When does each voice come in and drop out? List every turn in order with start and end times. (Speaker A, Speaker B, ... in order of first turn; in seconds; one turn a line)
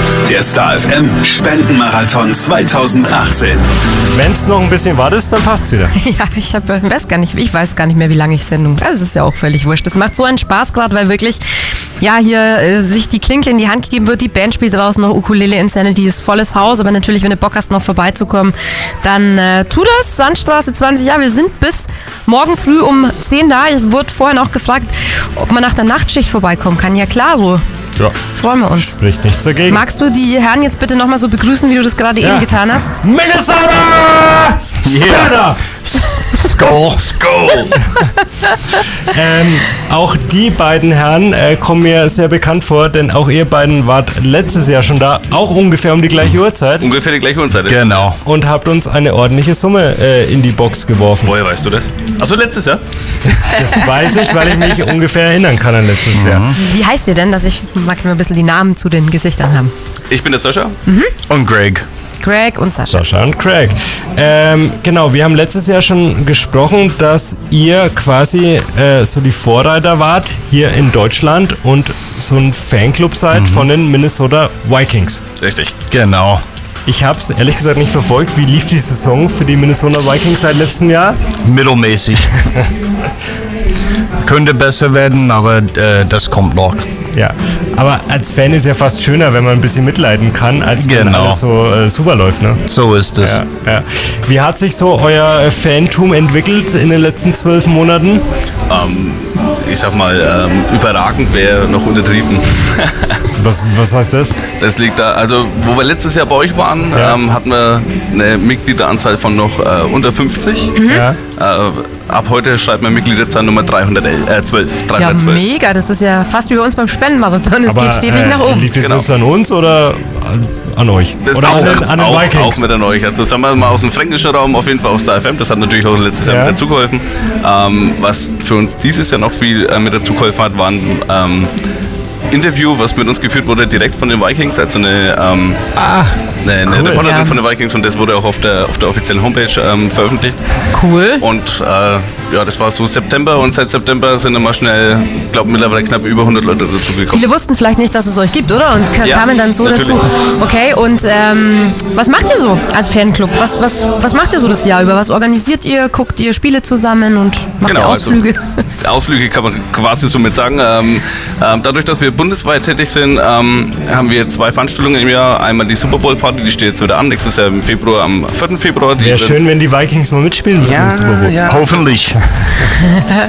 Speaker A: 0.2-3.6
Speaker B: 4.1-5.9
Speaker C: 6.0-11.4
Speaker C: 12.0-27.6
Speaker C: 28.3-29.0
Speaker B: 28.8-29.8
Speaker C: 29.7-33.0
Speaker B: 32.2-35.8
Speaker D: 34.8-37.7
Speaker E: 37.2-37.7
Speaker B: 39.1-46.9
Speaker E: 46.8-47.9
Speaker D: 47.6-48.2
Speaker B: 48.2-51.3
Speaker E: 51.2-52.8
Speaker B: 53.4-56.5
Speaker D: 56.1-56.5
Speaker C: 56.6-59.7
Speaker E: 60.1-60.8
Speaker C: 60.9-61.1
Speaker D: 61.3-61.8
Speaker C: 62.2-63.0
Speaker B: 62.8-75.2
Speaker D: 73.3-73.7
Speaker E: 75.4-75.7
Speaker D: 75.9-76.4
Speaker B: 76.9-81.2
Speaker D: 81.4-82.3
Speaker D: 84.2-86.9
Speaker B: 87.1-92.6
Speaker D: 90.8-91.4
Speaker D: 92.7-93.4
Speaker B: 93.2-98.2
Speaker E: 98.7-103.2
Speaker B: 103.4-104.4
Speaker E: 104.6-110.8
Speaker B: 106.9-107.2
Speaker C: 110.8-111.1
Speaker B: 110.9-111.2
Speaker E: 111.3-115.4
Speaker C: 115.0-118.7
Speaker B: 117.7-122.7
Speaker E: 118.8-119.1
Speaker E: 121.2-131.5
Speaker B: 126.2-126.6
Speaker E: 132.3-135.6
Speaker B: 135.8-137.0
Speaker E: 136.4-140.4
Speaker C: 137.0-137.4
Speaker C: 140.7-141.2
Speaker E: 141.2-147.3
Speaker C: 147.1-158.6
Speaker E: 149.0-150.0
Speaker E: 157.6-158.2
Speaker E: 158.8-169.4
Speaker B: 169.0-171.5
Speaker D: 171.4-172.3